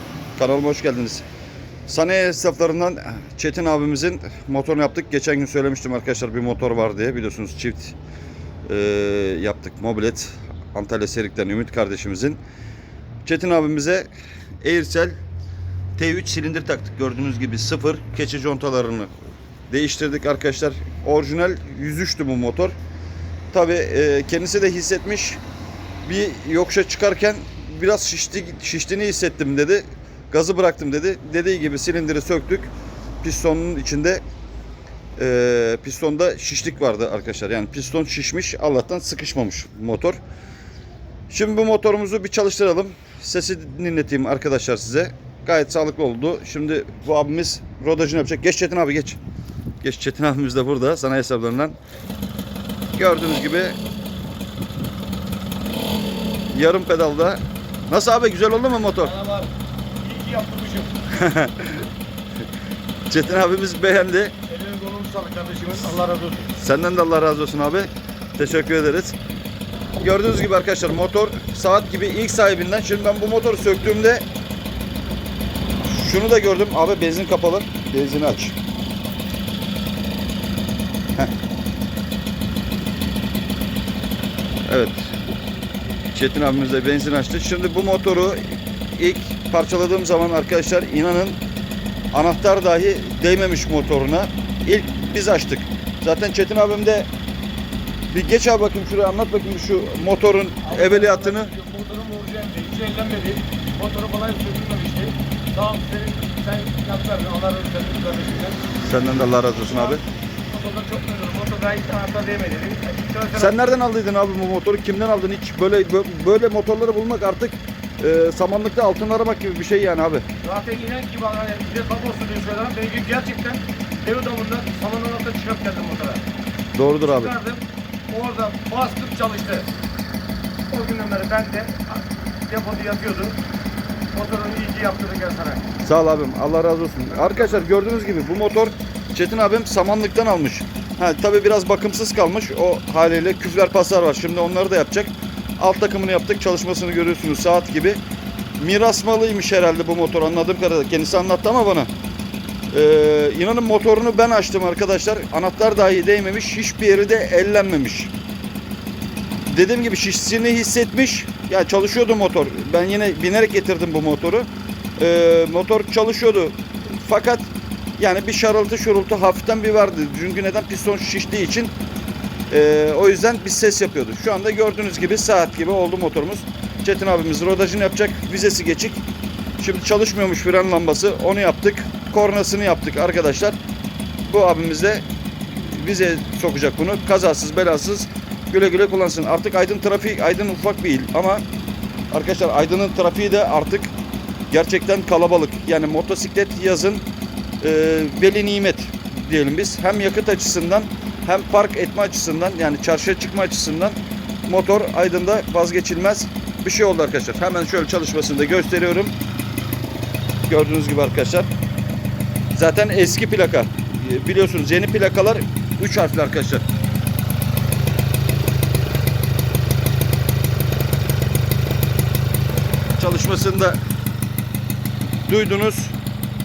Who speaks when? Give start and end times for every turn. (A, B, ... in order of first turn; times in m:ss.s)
0:00.4-0:01.2 A
0:01.9-0:08.0 A
0:08.7-0:12.4 A
0:13.2-0:14.1 A
0:14.6-0:15.1 A
0:16.0-0:19.1 A
0:19.7-0:22.7 A
0:23.5-0:25.4 A
0:26.0-0:32.7 A
0:33.2-0:34.2 A
0:35.2-0:40.2 A
0:41.3-0:49.2 A
0:49.8-0:51.8 A
0:53.0-0:53.8 A
0:56.5-0:59.1 A
0:58.9-1:01.0 B
1:01.1-1:01.7 A
1:03.1-1:04.3 A
1:04.5-1:06.5 B
1:06.6-1:09.2 A
1:10.0-1:14.2 A
1:15.8-1:18.6 A
1:24.7-1:25.1 A
1:26.1-1:31.4 A
1:32.1-1:37.1 A
1:38.1-1:41.5 A
1:40.6-1:48.6 B
1:48.8-1:50.0 A
1:49.6-1:53.8 B
1:53.3-2:00.2 A
2:00.4-2:06.2 B
2:06.7-2:07.3 A
2:07.0-2:09.7 B
2:10.7-2:13.4 B
2:14.1-2:15.6 B
2:15.8-2:28.0 A
2:28.6-2:31.9 A
2:32.7-2:38.1 A
2:39.5-2:51.7 A
2:52.5-2:59.0 A
2:59.6-3:03.6 A
3:04.2-3:11.4 A
3:12.1-3:13.9 A
3:14.5-3:17.0 A
3:17.6-3:29.1 A
3:30.5-3:31.5 A
3:32.5-3:36.6 A
3:43.0-3:43.8 A
3:45.2-3:46.0 A